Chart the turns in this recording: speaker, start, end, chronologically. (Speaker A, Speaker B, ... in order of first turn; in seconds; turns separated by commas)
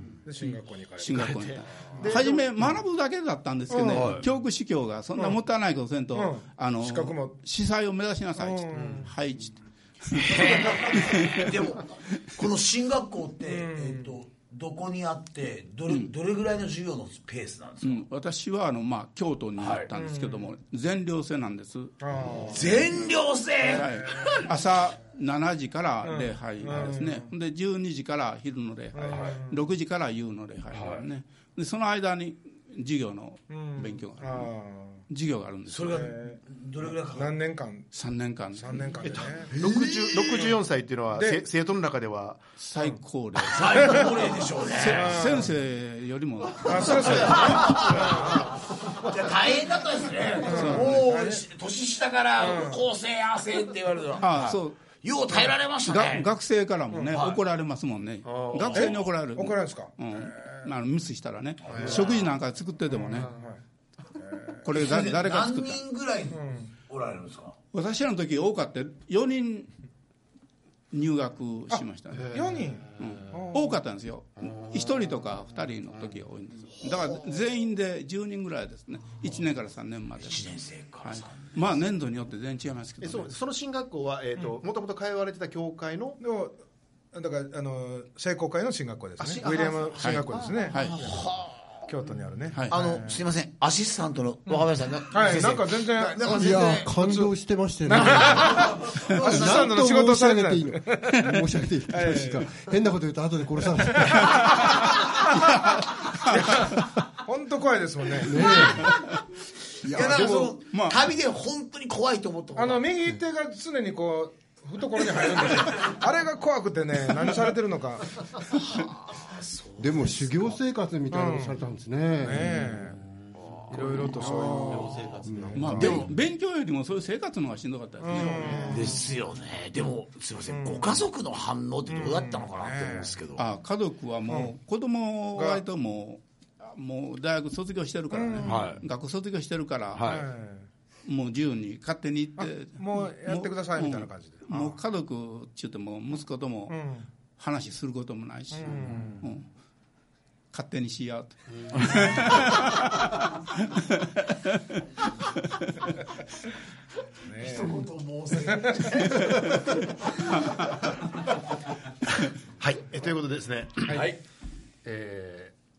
Speaker A: 0.2-2.3, Speaker B: 1.0-11.6, Speaker C: 1.1-2.1, Speaker D: 2.0-2.4, Speaker A: 3.7-4.2, Speaker C: 3.9-4.2, Speaker A: 6.1-7.3, Speaker A: 8.4-9.1, Speaker C: 10.3-18.0, Speaker A: 13.4-14.2, Speaker B: 17.8-22.0, Speaker C: 19.6-19.9, Speaker A: 19.9-20.5, Speaker A: 22.0-22.9, Speaker C: 22.3-24.5, Speaker B: 23.7-34.5, Speaker A: 23.8-24.4, Speaker A: 26.0-27.3, Speaker A: 28.9-29.6, Speaker C: 30.7-31.0, Speaker A: 33.5-35.0, Speaker B: 35.1-36.1, Speaker C: 35.7-37.3, Speaker A: 35.9-36.4, Speaker A: 37.1-37.9, Speaker B: 37.9-38.6, Speaker A: 38.5-39.6, Speaker D: 39.0-42.5, Speaker C: 39.5-40.5, Speaker A: 41.1-41.4, Speaker B: 42.6-44.1, Speaker C: 43.4-45.3, Speaker A: 43.8-44.1, Speaker B: 44.7-47.8, Speaker A: 44.9-45.5, Speaker A: 46.5-48.6, Speaker C: 46.9-56.3, Speaker A: 50.4-51.5, Speaker B: 50.5-51.0, Speaker A: 52.4-52.9, Speaker B: 54.2-54.8, Speaker B: 55.9-63.3, Speaker A: 56.9-57.2, Speaker C: 57.1-57.4, Speaker D: 58.2-59.0, Speaker A: 58.7-60.6, Speaker C: 61.6-62.3, Speaker A: 62.9-63.6, Speaker A: 64.2-64.6, Speaker B: 64.6-65.8, Speaker C: 64.7-67.5, Speaker A: 66.3-66.7, Speaker B: 67.7-69.7, Speaker B: 70.9-72.4, Speaker D: 72.2-72.5, Speaker A: 72.3-73.8, Speaker B: 73.0-83.3, Speaker D: 74.4-75.2, Speaker C: 76.8-77.2, Speaker C: 80.2-81.6, Speaker D: 83.0-86.2, Speaker A: 86.2-86.5, Speaker A: 87.1-93.2, Speaker D: 89.2-89.5, Speaker C: 89.2-91.8, Speaker B: 90.0-91.1, Speaker C: 92.7-97.2, Speaker A: 94.5-97.3, Speaker E: 96.3-98.6, Speaker C: 97.9-99.7, Speaker A: 97.9-102.5, Speaker E: 99.2-104.5, Speaker A: 103.9-108.6, Speaker B: 106.3-106.7, Speaker E: 108.2-109.0, Speaker E: 109.8-110.6, Speaker C: 109.8-112.8, Speaker B: 110.7-111.0, Speaker A: 112.5-118.6, Speaker C: 118.5-120.6, Speaker E: 119.8-122.7, Speaker A: 121.1-121.6, Speaker A: 122.2-123.0, Speaker C: 122.4-123.0, Speaker D: 123.6-126.0, Speaker C: 123.7-126.1, Speaker A: 123.7-126.1, Speaker B: 125.5-128.7, Speaker A: 128.0-129.1, Speaker C: 128.1-133.4, Speaker D: 128.4-128.7, Speaker A: 130.5-131.0, Speaker A: 131.9-133.2, Speaker B: 133.4-140.2, Speaker A: 135.3-135.6, Speaker A: 138.1-138.7, Speaker C: 138.4-138.8, Speaker C: 139.9-140.3, Speaker A: 140.0-140.7, Speaker B: 141.1-146.8, Speaker A: 142.4-144.8, Speaker A: 146.7-147.1, Speaker B: 147.4-149.4, Speaker A: 148.5-149.3, Speaker B: 150.5-154.8, Speaker A: 157.2-157.9, Speaker C: 157.3-160.9, Speaker A: 158.5-158.9, Speaker D: 162.6-164.1, Speaker A: 163.9-164.1, Speaker C: 163.9-164.2, Speaker D: 164.8-165.5